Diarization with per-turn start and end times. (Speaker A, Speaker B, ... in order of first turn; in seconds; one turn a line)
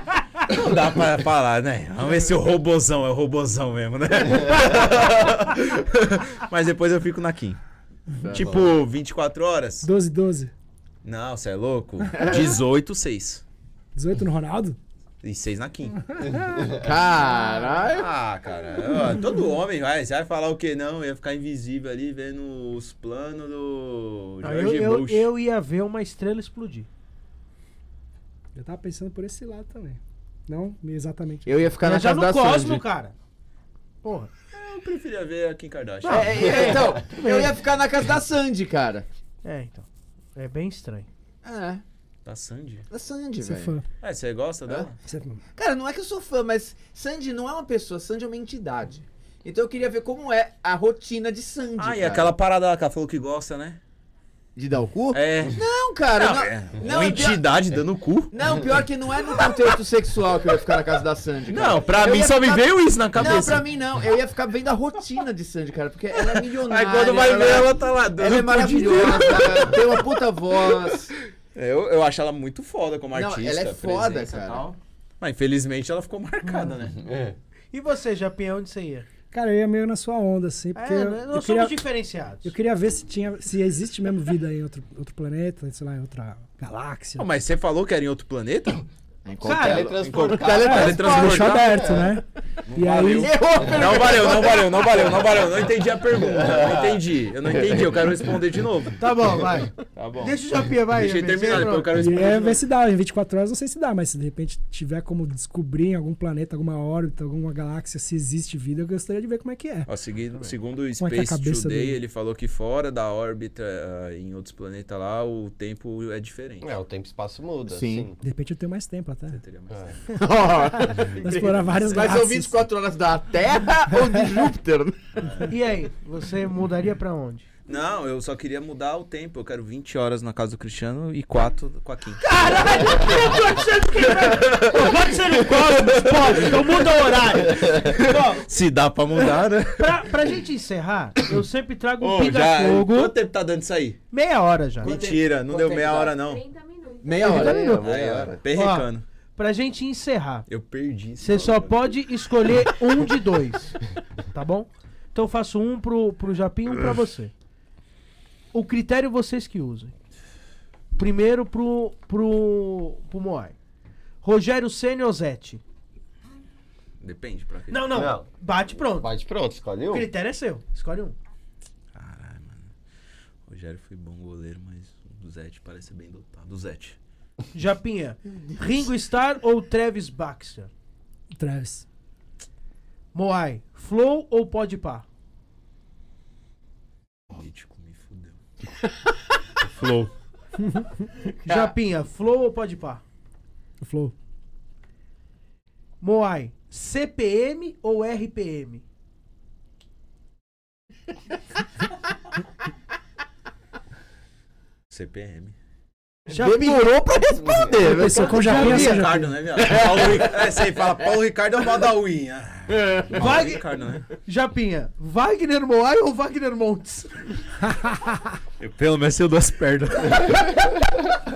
Speaker A: 0.5-7.6
Speaker B: 8.2-8.8
Speaker A: 8.3-9.9
Speaker C: 9.8-10.5
Speaker A: 11.0-13.4
Speaker C: 13.9-14.8
Speaker A: 15.2-16.0
Speaker C: 16.1-16.7
Speaker D: 16.2-16.9
Speaker B: 16.7-18.1
Speaker A: 17.9-25.3
Speaker E: 24.4-26.9
Speaker C: 28.6-31.5
Speaker B: 31.5-32.9
Speaker E: 31.8-33.1
Speaker E: 34.0-34.3
Speaker A: 34.5-36.7
Speaker E: 36.0-37.6
Speaker B: 36.1-39.1
Speaker D: 36.7-37.0
Speaker E: 39.4-41.1
Speaker B: 41.4-41.8
Speaker A: 42.2-42.9
Speaker B: 42.9-43.8
Speaker C: 43.4-43.9
Speaker A: 44.0-45.0
Speaker C: 45.0-45.4
Speaker B: 45.6-52.3
Speaker A: 51.8-53.8
Speaker B: 54.6-57.5
Speaker A: 55.1-58.4
Speaker B: 58.3-71.1
Speaker A: 59.4-59.7
Speaker A: 61.5-63.7
Speaker A: 66.1-70.2
Speaker A: 71.5-77.1
Speaker B: 73.1-74.7
Speaker E: 76.5-76.7
Speaker D: 77.0-77.4
Speaker E: 77.7-79.1
Speaker C: 79.3-81.8
Speaker E: 80.8-82.5
Speaker C: 82.5-87.3
Speaker A: 87.2-88.9
Speaker B: 89.2-91.5
Speaker E: 89.4-90.0
Speaker D: 89.5-92.1
Speaker A: 90.0-91.8
Speaker C: 90.5-93.4
Speaker A: 92.7-99.1
Speaker B: 93.1-95.3
Speaker D: 93.6-94.0
Speaker D: 96.1-97.0
Speaker E: 99.0-102.0
Speaker A: 99.8-102.7
Speaker C: 101.8-109.9
Speaker A: 109.9-116.7
Speaker C: 111.0-112.0
Speaker D: 116.6-118.2
Speaker B: 117.7-118.1
Speaker C: 118.2-119.4
Speaker A: 119.3-120.0
Speaker D: 119.7-120.0
Speaker B: 120.2-125.2
Speaker C: 120.7-122.6
Speaker A: 121.2-122.2
Speaker A: 125.2-125.5
Speaker E: 125.5-127.5
Speaker A: 127.7-132.3
Speaker E: 132.2-138.1
Speaker A: 134.0-140.1
Speaker D: 137.4-138.0
Speaker E: 139.8-143.1
Speaker A: 142.0-144.0
Speaker E: 144.1-144.9
Speaker B: 144.8-146.4
Speaker A: 144.8-146.6
Speaker B: 146.9-148.4
Speaker E: 147.2-147.8
Speaker D: 147.2-148.4
Speaker A: 147.3-149.0
Speaker E: 148.5-150.5
Speaker A: 150.5-151.9
Speaker E: 151.2-153.8
Speaker E: 154.3-157.3
Speaker E: 158.5-159.9
Speaker E: 161.0-163.6
Speaker E: 164.2-165.6
Speaker A: 167.0-168.1
Speaker E: 167.7-169.1
Speaker D: 167.9-168.3
Speaker D: 168.9-170.1
Speaker E: 169.9-171.2
Speaker A: 171.9-172.7
Speaker A: 173.5-177.0
Speaker E: 177.5-180.7
Speaker C: 181.3-181.8
Speaker E: 183.1-185.1
Speaker A: 187.3-188.4
Speaker A: 189.6-190.1
Speaker E: 191.4-193.0
Speaker B: 191.5-191.7
Speaker C: 193.8-194.1
Speaker E: 196.0-198.8
Speaker A: 204.9-205.6
Speaker B: 206.3-208.8
Speaker E: 206.3-206.9
Speaker C: 207.8-209.3
Speaker E: 208.1-209.1
Speaker A: 208.5-214.1
Speaker B: 209.6-211.1
Speaker B: 212.7-213.4
Speaker E: 213.2-217.4
Speaker C: 217.7-218.3
Speaker A: 218.6-220.9